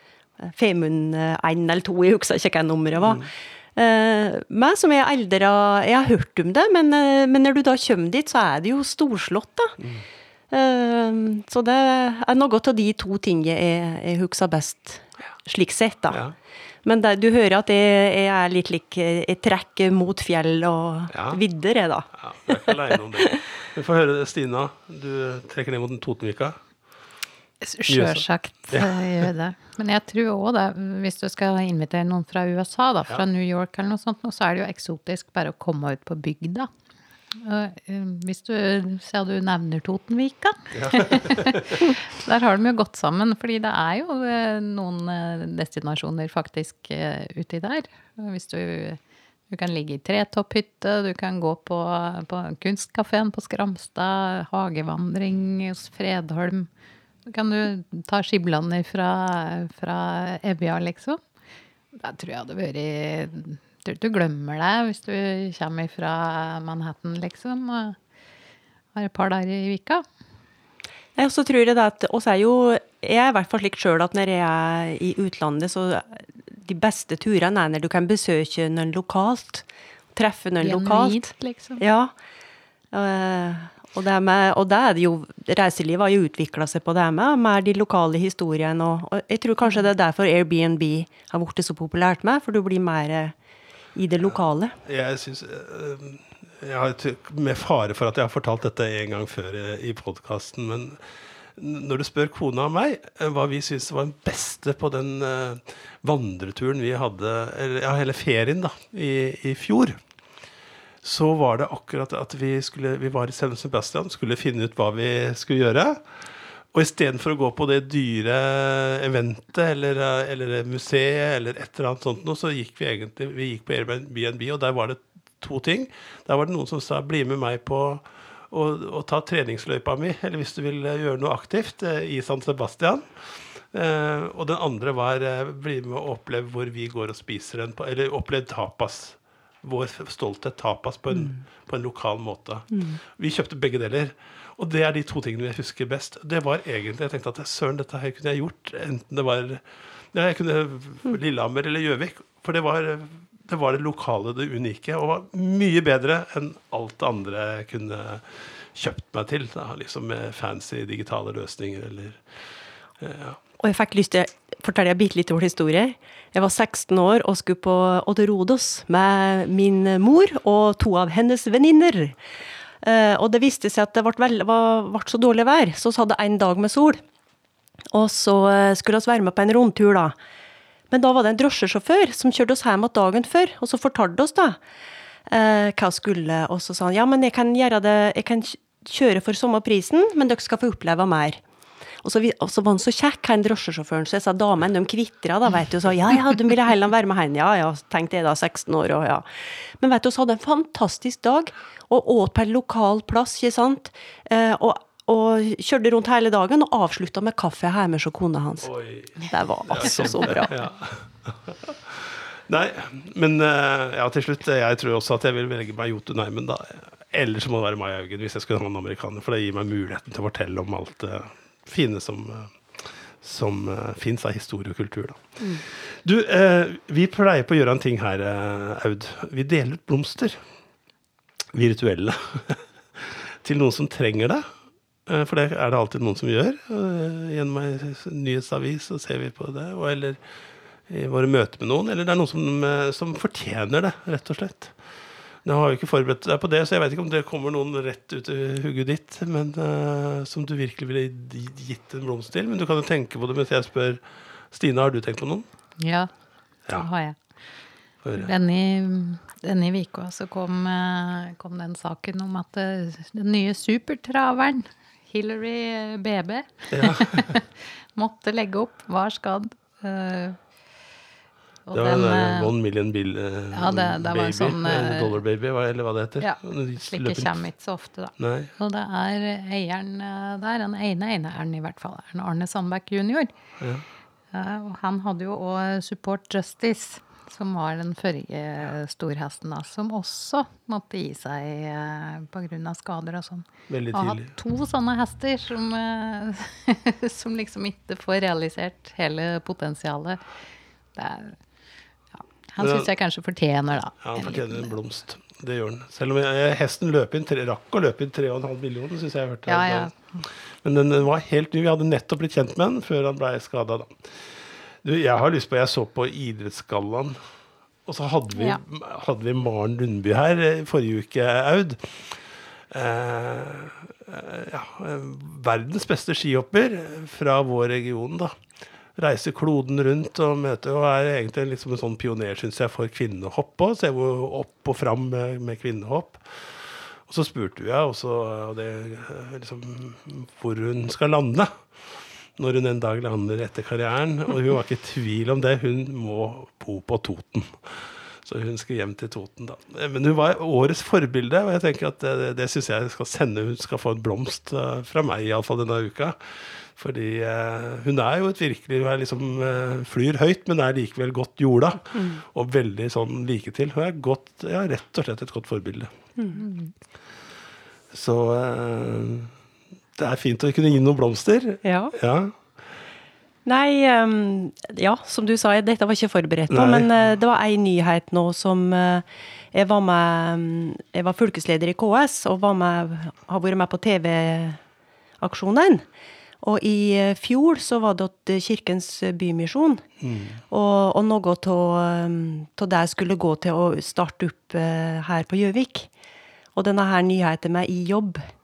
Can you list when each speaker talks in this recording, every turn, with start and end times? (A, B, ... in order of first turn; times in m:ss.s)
0:00.4-0:09.8 A
0:03.0-0:03.3 B
0:09.8-0:10.0 B
0:10.5-0:16.2 A
0:16.8-0:22.1 A
0:21.1-0:21.4 B
0:22.1-0:26.6 B
0:22.7-0:23.3 A
0:27.6-0:36.7 C
0:27.9-0:29.3 B
0:37.4-0:56.7 C
0:40.7-0:41.9 B
0:57.3-1:01.2 C
1:02.0-1:08.0 C
1:09.0-1:10.0 C
1:11.2-1:22.1 A
1:20.6-1:21.8 C
1:22.9-1:33.4 A
1:34.0-1:34.8 A
1:34.8-1:41.0 B
1:41.6-1:50.0 B
1:51.0-1:56.0 B
1:56.7-2:42.2 B
2:22.7-2:23.0 A
2:43.0-2:43.4 B
2:43.6-2:52.2 A
2:52.8-2:57.0 A
2:57.9-3:00.2 A
3:00.9-3:04.6 A
3:05.3-3:11.4 A
3:12.0-3:30.5 A
3:28.6-3:50.4 B
3:51.5-3:54.5 B
3:55.1-4:00.2 B
4:00.9-4:04.8 B
4:05.4-4:15.5 B
4:15.8-4:16.1 C
4:16.7-4:17.2 C
4:18.0-4:18.3 B
4:18.2-4:30.4 C
4:26.7-4:27.3 B
4:31.7-4:32.5 C
4:31.7-4:37.4 B
4:33.5-4:35.2 C
4:36.2-4:43.3 C
4:38.2-4:38.5 B
4:43.6-4:43.8 B
4:44.3-5:00.2 C
4:53.7-4:54.3 B
5:01.0-5:01.4 C
5:02.1-5:04.7 C
5:02.6-5:02.9 B
5:04.0-5:09.9 B
5:09.5-5:10.2 C
5:10.6-5:14.2 B
5:14.8-5:17.2 B
5:17.9-5:22.1 B
5:22.7-5:28.3 B
5:29.0-5:41.5 B
5:42.4-6:05.9 B
6:06.2-6:06.4 A
6:06.4-6:06.7 C
6:07.9-6:09.3 B
6:10.0-6:12.4 B
6:11.6-6:11.9 A
6:13.5-6:24.6 A
6:16.5-6:16.9 B
6:25.2-6:25.8 A
6:26.4-6:29.8 A
6:30.0-6:30.4 B
6:30.5-6:35.9 A
6:36.6-6:38.2 A